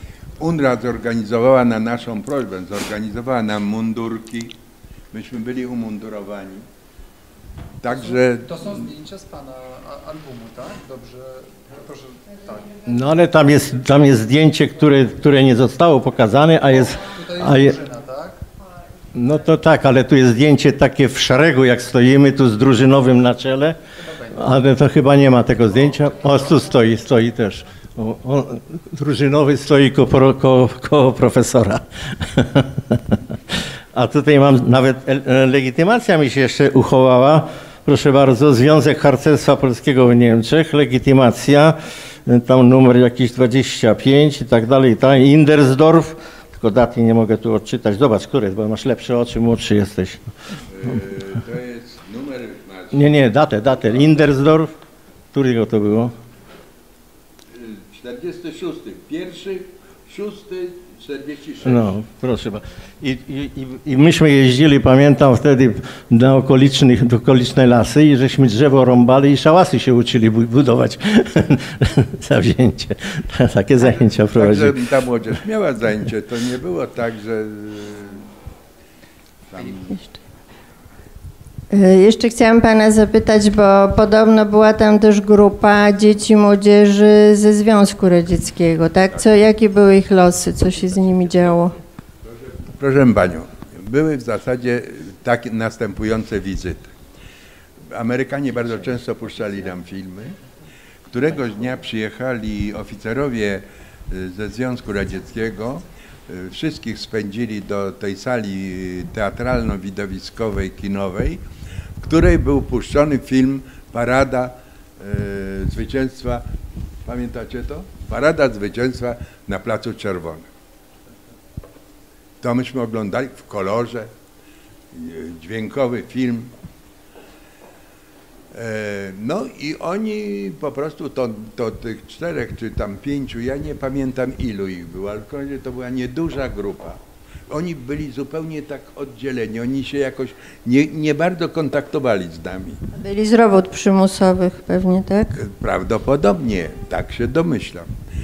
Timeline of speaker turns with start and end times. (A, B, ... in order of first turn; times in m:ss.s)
0:00.4-0:04.5 A
0:05.1-0:06.6 A
0:07.8-0:08.7 A
0:07.9-0:12.7 B
0:12.9-0:17.8 C
0:16.8-0:18.4 B
0:19.1-0:23.8 C
0:24.0-0:24.4 B
0:24.3-0:50.2 C
0:50.7-0:53.3 A
0:52.9-0:54.7 C
0:55.3-0:56.1 C
0:57.5-1:01.9 A
1:01.6-1:14.8 C
1:13.8-1:18.2 A
1:19.5-1:20.0 A
1:21.7-1:31.8 D
1:32.2-1:36.9 A
1:37.9-1:40.4 A
1:41.1-1:51.4 A
1:52.0-1:56.4 A
1:57.0-2:00.5 A
2:02.4-2:04.1 A
2:04.9-2:06.5 A
2:08.5-2:22.8 A
2:22.9-2:25.4 D
2:25.4-2:27.9 A